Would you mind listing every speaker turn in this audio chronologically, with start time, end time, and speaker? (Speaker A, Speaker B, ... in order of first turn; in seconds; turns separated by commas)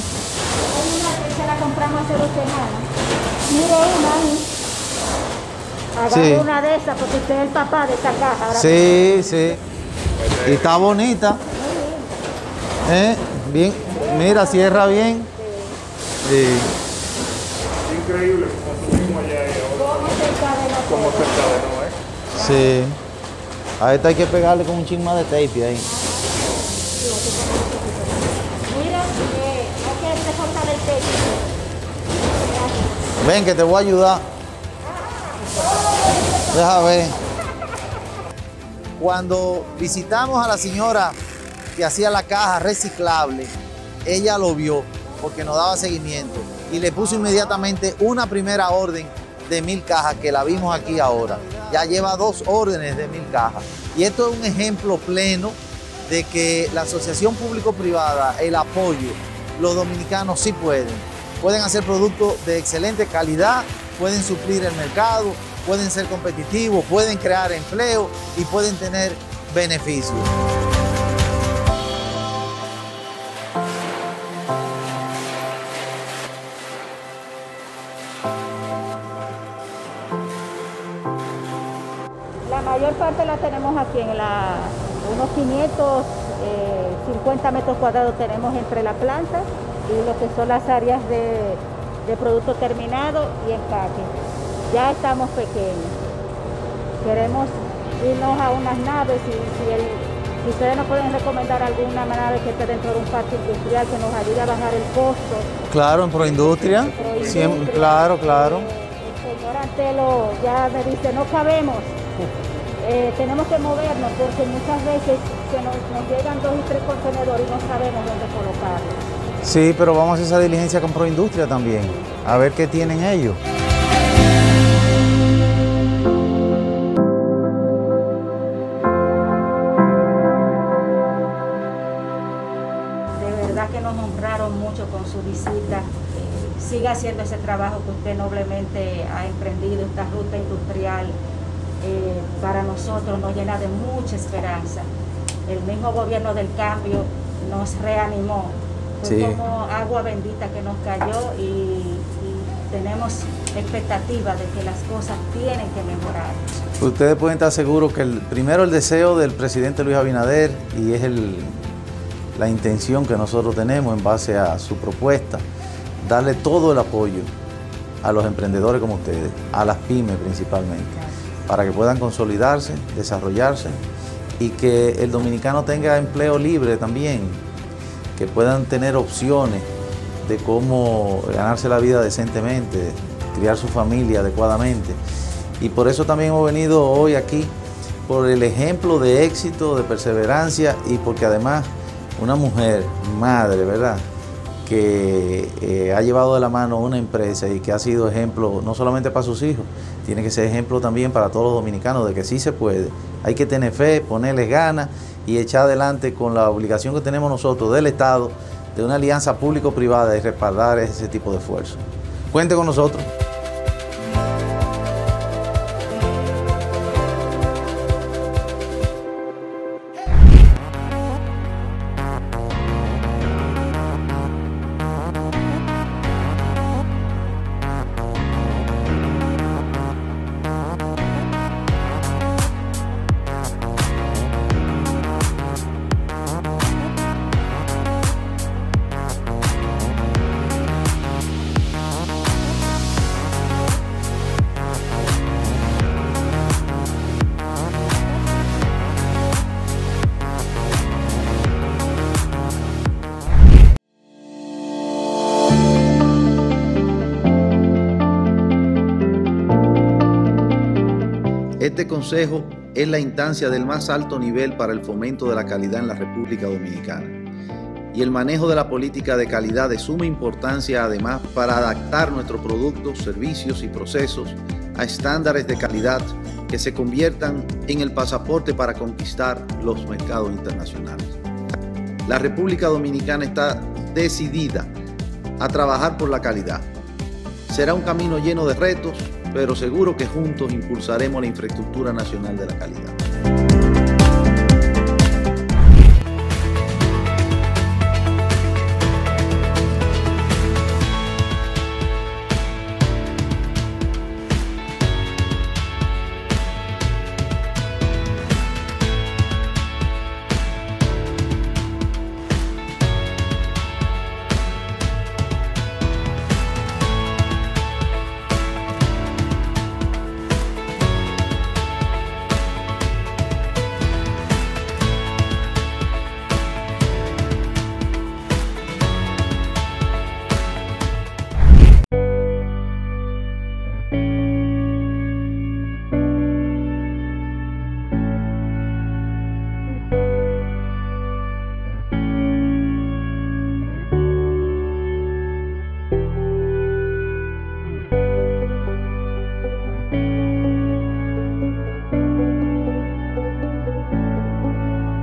Speaker A: 0.7-2.9, Speaker A: 3.5-4.5, Speaker A: 6.0-9.6, Speaker B: 6.1-6.5, Speaker B: 8.5-9.6, Speaker C: 10.2-10.8, Speaker B: 10.4-11.4, Speaker A: 11.5-12.2, Speaker B: 12.8-15.3, Speaker A: 13.8-15.8, Speaker B: 16.2-16.7, Speaker C: 17.8-20.3, Speaker A: 19.7-21.6, Speaker C: 20.9-21.9, Speaker B: 22.3-23.0, Speaker A: 22.3-22.8, Speaker B: 23.8-25.9, Speaker A: 25.9-31.6, Speaker A: 32.3-33.1, Speaker B: 33.2-34.2, Speaker B: 36.5-37.2, Speaker B: 39.0-41.2, Speaker B: 41.8-43.5, Speaker B: 44.0-70.3, Speaker A: 82.4-94.1, Speaker A: 94.7-96.0, Speaker A: 97.0-105.5, Speaker B: 105.7-108.7, Speaker C: 106.2-107.8, Speaker A: 106.9-112.0, Speaker A: 112.8-119.0, Speaker B: 119.4-123.4, Speaker A: 121.9-122.2, Speaker A: 133.2-141.2, Speaker A: 141.8-144.9, Speaker A: 145.4-156.4, Speaker B: 149.0-149.4, Speaker B: 156.8-161.6, Speaker B: 162.3-165.4, Speaker B: 166.0-167.3, Speaker B: 168.0-173.8, Speaker B: 174.4-177.4, Speaker B: 178.2-179.7, Speaker B: 180.2-185.0, Speaker B: 185.6-187.5, Speaker B: 188.1-194.0, Speaker B: 194.6-213.1, Speaker B: 261.6-267.1, Speaker B: 267.9-281.1, Speaker B: 282.1-284.7, Speaker B: 285.4-286.7, Speaker B: 287.5-292.9